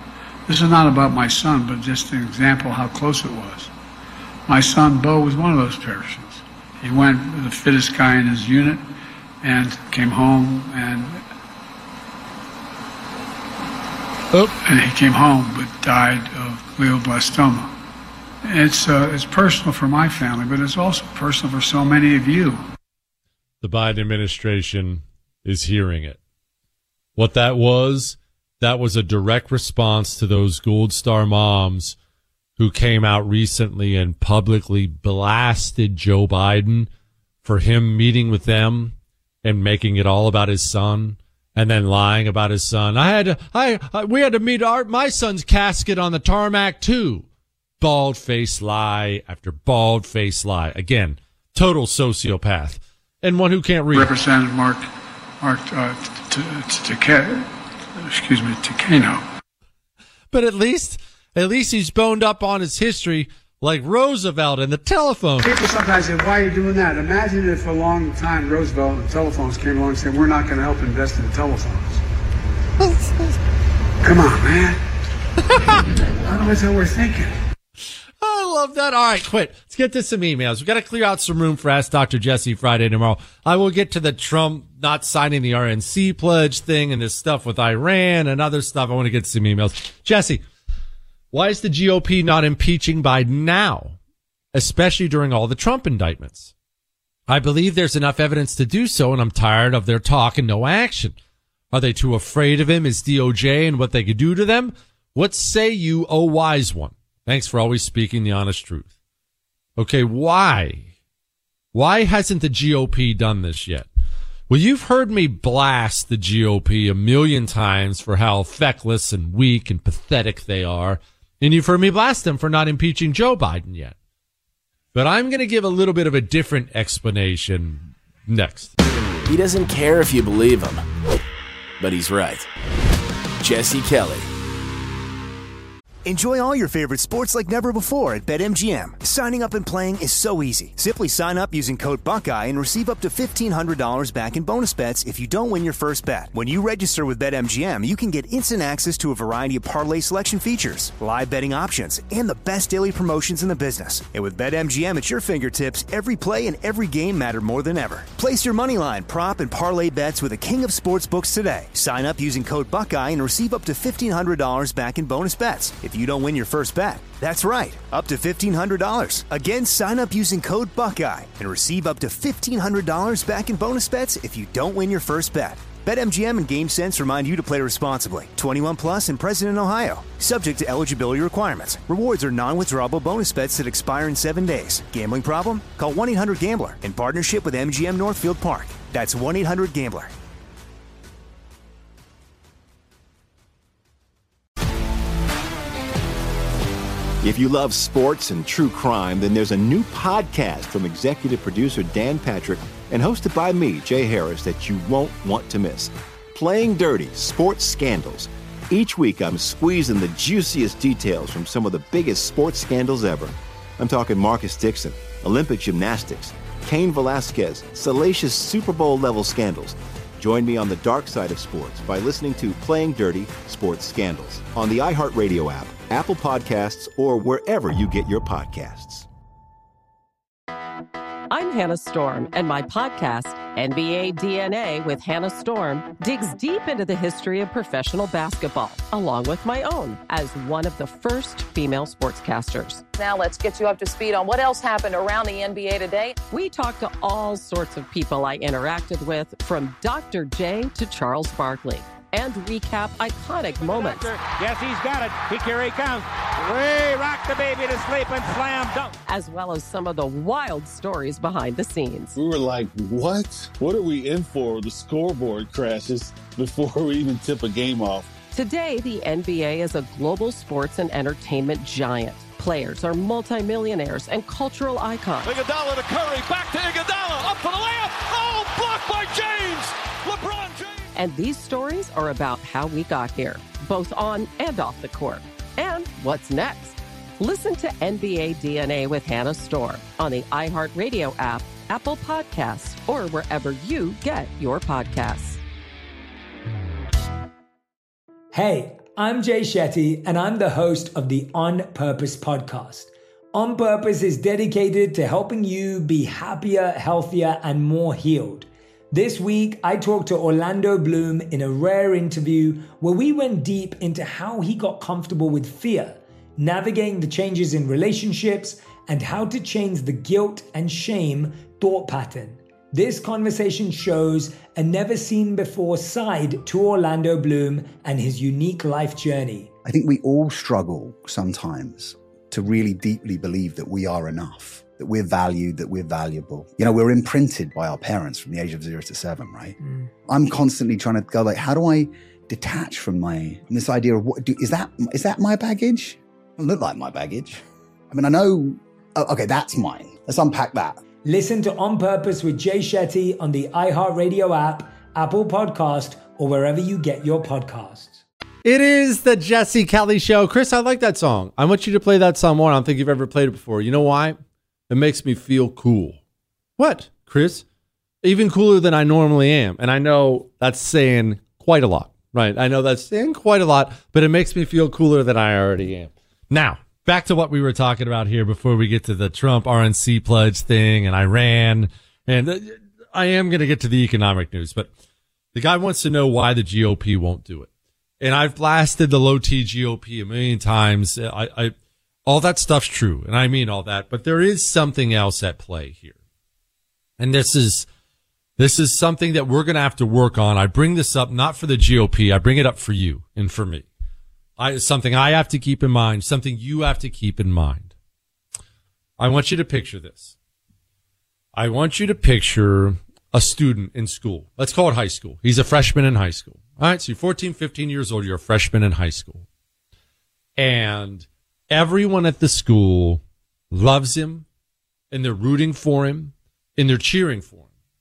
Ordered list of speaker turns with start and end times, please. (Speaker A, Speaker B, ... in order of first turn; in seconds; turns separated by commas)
Speaker A: 0.5-3.7, Speaker A: 4.5-8.8, Speaker A: 9.4-11.2, Speaker A: 14.4-17.7, Speaker A: 18.4-22.6, Speaker B: 23.6-26.2, Speaker B: 27.2-32.0, Speaker B: 32.6-36.9, Speaker B: 37.4-47.3, Speaker B: 47.8-54.1, Speaker A: 53.9-54.9, Speaker A: 55.4-59.2, Speaker B: 60.3-65.5, Speaker A: 65.4-72.0, Speaker B: 72.8-73.3, Speaker A: 74.0-74.8, Speaker A: 76.2-77.3, Speaker B: 78.2-90.4, Speaker B: 91.3-94.0, Speaker B: 94.5-96.5, Speaker B: 97.3-101.2, Speaker B: 101.7-108.9, Speaker B: 109.8-110.9, Speaker B: 111.7-113.9, Speaker B: 114.5-124.0, Speaker B: 124.9-128.7, Speaker C: 129.3-130.8, Speaker C: 131.8-132.5, Speaker C: 133.4-134.3, Speaker D: 136.1-190.1, Speaker E: 197.2-229.1, Speaker F: 231.3-242.8, Speaker G: 243.0-246.2, Speaker F: 246.3-254.2, Speaker H: 253.6-258.9, Speaker F: 259.1-262.1, Speaker I: 262.1-268.1, Speaker F: 268.3-275.4, Speaker J: 275.2-280.9, Speaker F: 280.9-295.4, Speaker K: 298.3-329.5, Speaker L: 329.6-339.6, Speaker L: 340.1-347.4, Speaker L: 347.9-350.8, Speaker K: 351.1-358.0, Speaker B: 358.4-364.2, Speaker B: 364.7-366.0, Speaker B: 366.6-367.4, Speaker B: 368.0-384.7, Speaker B: 385.3-387.5, Speaker B: 388.0-391.5, Speaker B: 392.1-396.0, Speaker B: 397.0-397.7, Speaker B: 398.4-403.7, Speaker B: 404.4-407.7, Speaker B: 409.0-410.1, Speaker B: 411.3-419.3, Speaker B: 420.4-424.2, Speaker B: 424.9-427.5